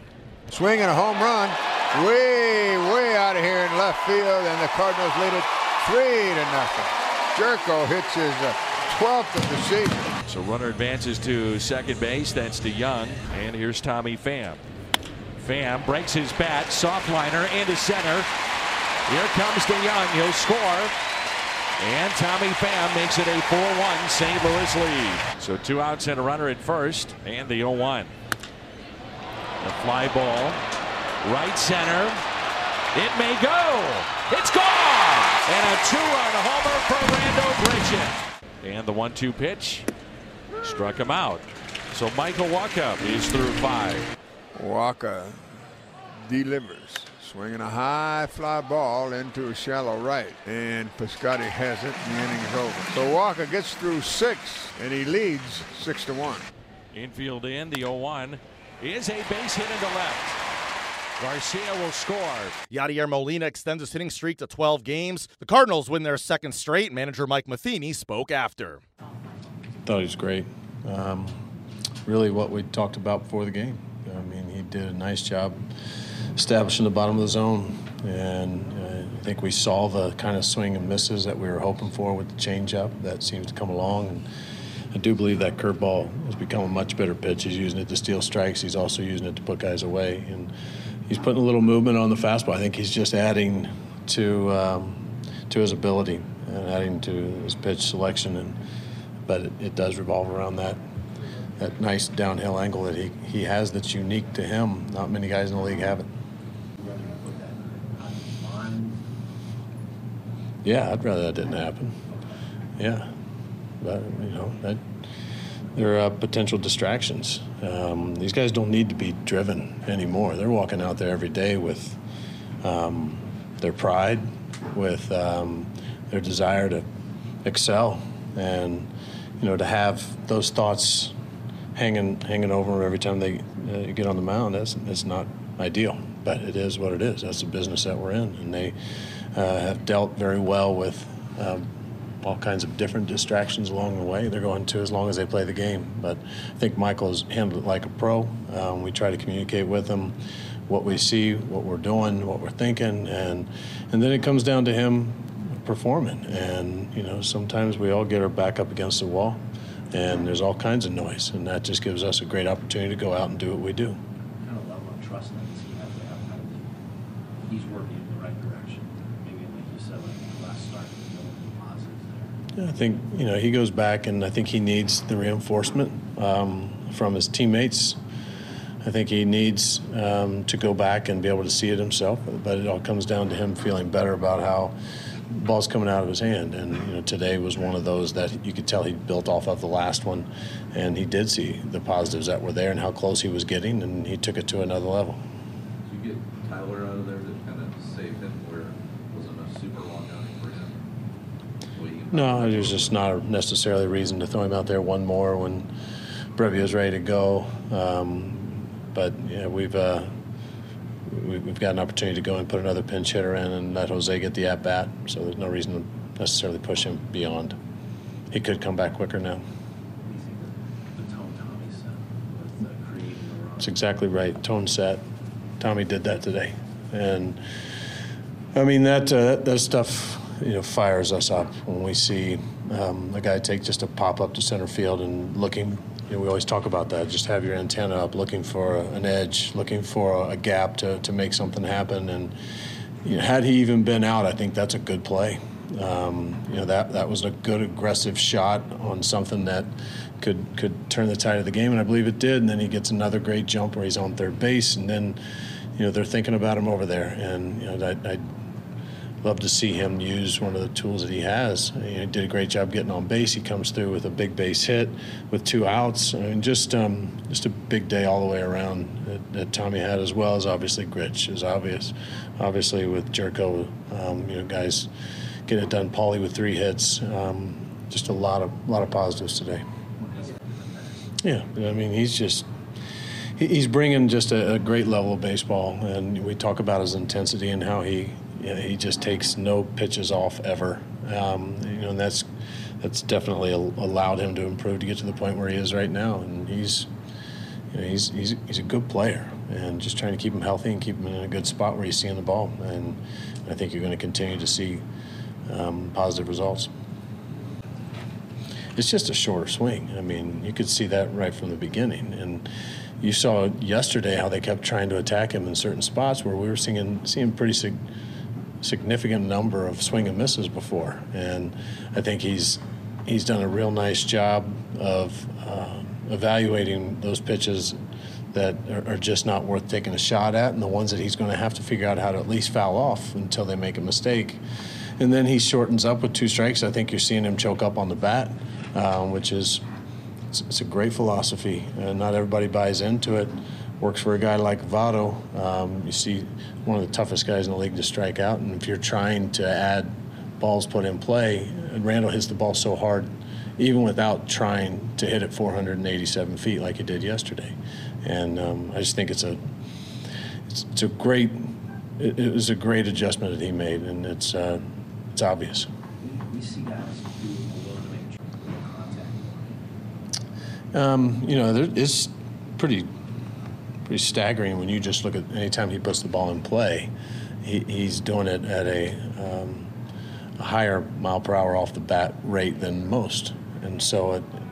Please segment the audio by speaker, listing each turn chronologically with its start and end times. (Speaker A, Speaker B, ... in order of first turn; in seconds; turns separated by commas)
Speaker A: 0.5-10.1, Speaker B: 10.3-14.6, Speaker B: 15.4-18.3, Speaker B: 19.1-20.9, Speaker B: 21.8-28.1, Speaker B: 29.6-30.6, Speaker B: 31.2-32.2, Speaker B: 32.9-39.9, Speaker B: 40.6-44.1, Speaker A: 44.5-45.5, Speaker A: 46.2-56.5, Speaker B: 56.9-60.4, Speaker B: 61.2-62.5, Speaker C: 62.7-68.8, Speaker D: 69.8-71.4, Speaker D: 72.0-75.6, Speaker D: 76.3-84.2, Speaker D: 84.9-90.5, Speaker D: 91.1-98.5, Speaker D: 99.3-100.8, Speaker D: 101.6-106.1, Speaker E: 106.8-109.0, Speaker D: 110.6-112.0, Speaker D: 112.8-113.1, Speaker D: 113.8-114.8, Speaker D: 115.7-122.0, Speaker D: 122.6-126.8, Speaker D: 127.4-131.1, Speaker D: 131.7-138.7, Speaker D: 139.3-141.6, Speaker D: 142.2-150.1, Speaker D: 150.7-159.4, Speaker D: 159.9-164.0, Speaker E: 164.4-166.7, Speaker E: 167.5-172.3, Speaker D: 172.6-178.0, Speaker D: 178.8-184.7, Speaker D: 185.3-195.2, Speaker F: 196.9-198.7, Speaker F: 199.4-200.5, Speaker F: 201.8-202.8, Speaker D: 202.1-205.7, Speaker D: 206.3-210.1, Speaker D: 211.1-217.5, Speaker D: 218.3-219.4, Speaker E: 220.0-223.7, Speaker D: 223.6-225.0, Speaker D: 225.6-227.4, Speaker D: 228.6-242.3, Speaker D: 243.0-249.7, Speaker D: 250.2-255.2, Speaker D: 255.8-258.2, Speaker D: 259.2-274.9, Speaker D: 275.5-279.6, Speaker D: 281.2-282.4, Speaker D: 283.4-292.2, Speaker D: 292.8-296.9, Speaker D: 297.7-304.8, Speaker D: 305.5-306.7, Speaker D: 308.8-312.5, Speaker D: 313.0-317.8, Speaker D: 318.6-327.8, Speaker D: 328.3-334.4, Speaker D: 335.0-339.6, Speaker D: 340.3-359.4, Speaker D: 360.5-364.6, Speaker D: 365.1-365.7, Speaker E: 366.0-369.6, Speaker D: 370.7-372.9, Speaker D: 373.9-376.9, Speaker D: 377.4-379.7, Speaker D: 380.4-384.2